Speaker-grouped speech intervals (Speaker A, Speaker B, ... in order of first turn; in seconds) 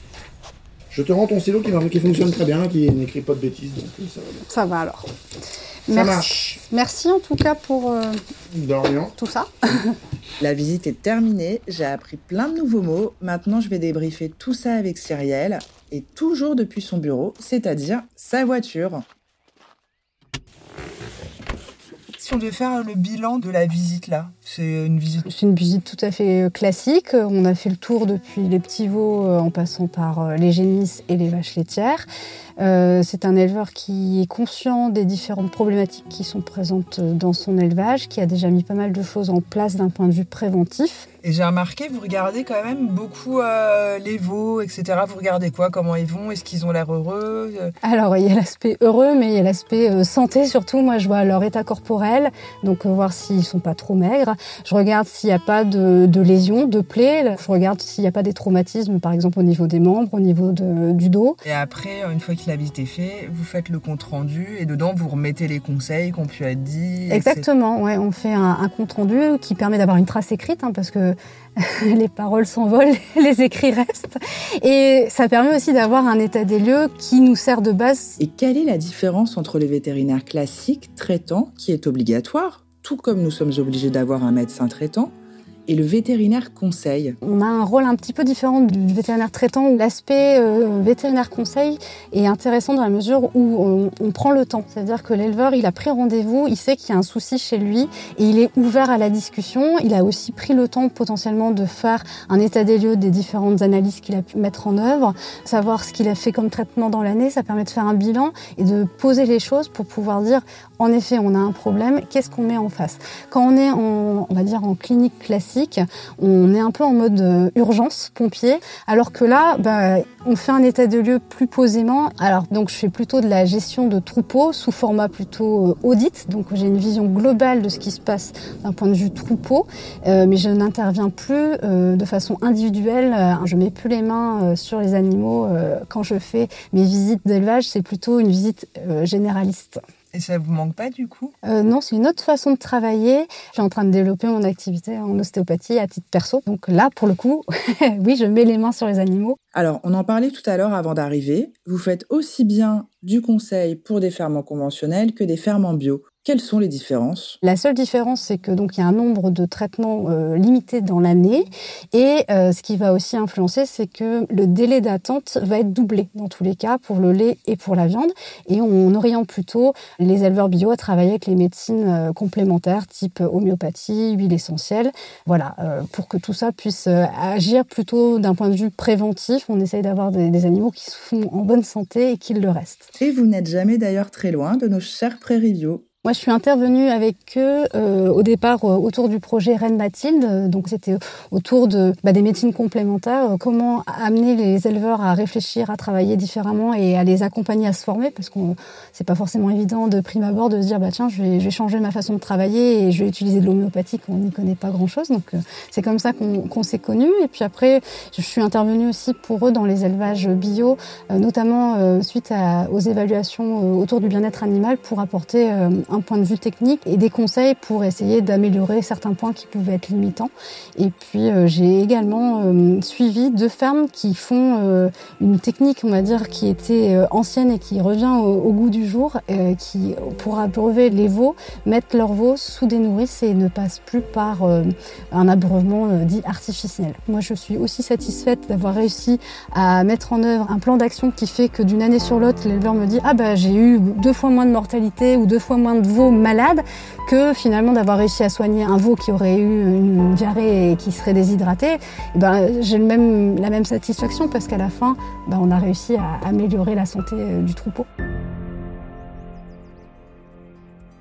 Speaker A: 0.9-4.4, 5.9-6.6, 8.5-9.1
Speaker B: 4.5-5.1, 5.9-8.2, 9.2-10.0, 25.2-32.0, 32.6-41.1, 47.8-61.4, 67.1-78.2, 87.2-139.8, 141.4-149.4, 157.4-182.9, 186.0-257.9
Speaker C: 10.4-19.0, 22.2-25.3, 41.2-47.7, 61.4-67.5, 78.2-85.1, 85.7-87.2, 140.1-141.3, 149.6-157.4, 183.0-185.8